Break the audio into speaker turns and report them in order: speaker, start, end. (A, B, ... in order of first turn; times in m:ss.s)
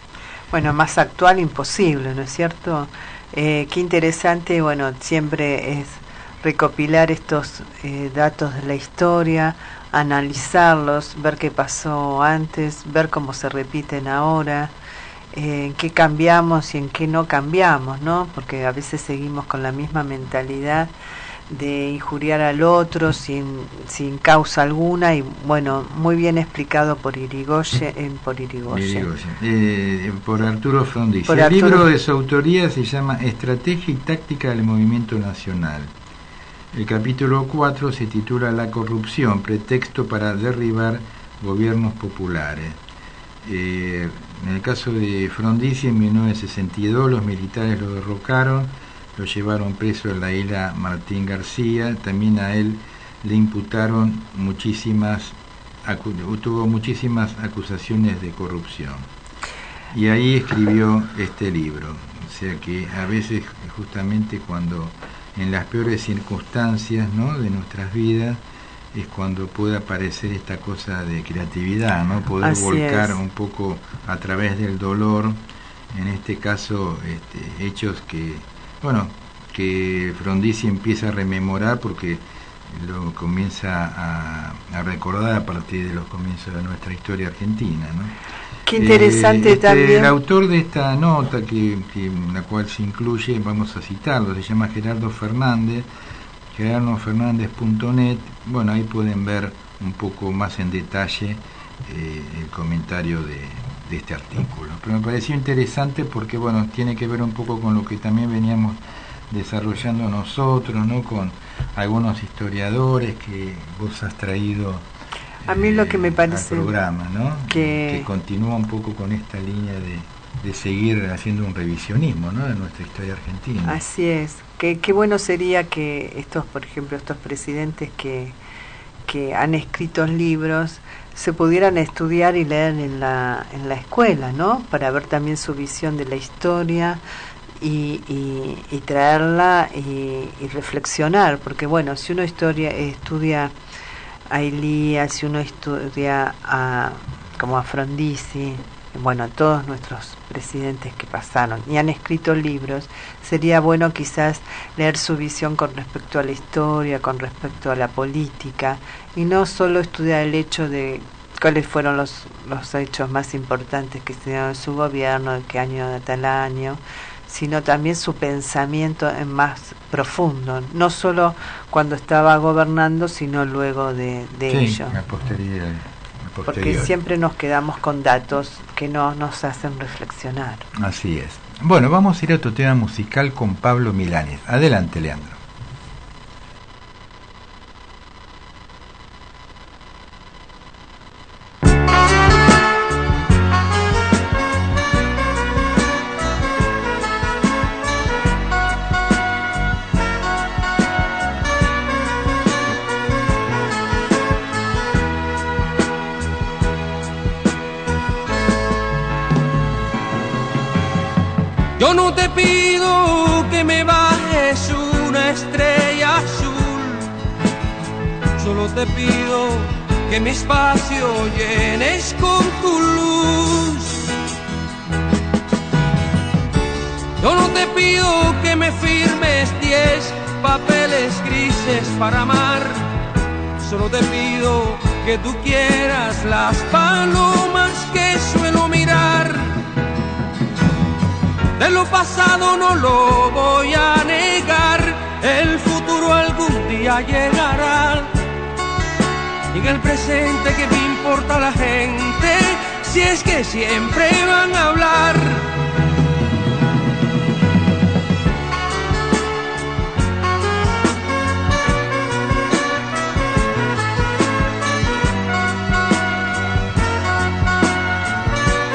0:00.5-0:14.7 A
0:15.3-0:20.9 A
0:21.5-0:29.1 A
0:28.7-0:35.9 B
0:31.3-0:31.8 A
0:36.7-0:42.8 B
0:43.4-0:59.0 B
0:59.9-1:08.4 B
1:08.9-1:15.4 B
1:12.4-1:13.2 A
1:15.9-1:28.1 B
1:28.7-1:30.1 A
1:28.8-1:35.9 B
1:36.5-1:48.8 B
1:49.3-1:54.8 B
1:55.4-2:03.8 B
1:55.5-1:56.7 A
1:57.5-1:58.1 A
2:03.6-2:08.4 A
2:09.1-2:17.0 A
2:17.6-2:23.5 A
2:24.3-2:54.9 A
2:54.5-2:56.9 B
2:56.4-3:00.7 A
3:00.8-3:05.4 B
3:31.8-3:37.1 C
3:38.4-3:44.0 C
3:47.2-3:52.9 C
3:53.6-3:59.6 C
4:01.6-4:08.1 C
4:09.5-4:15.5 C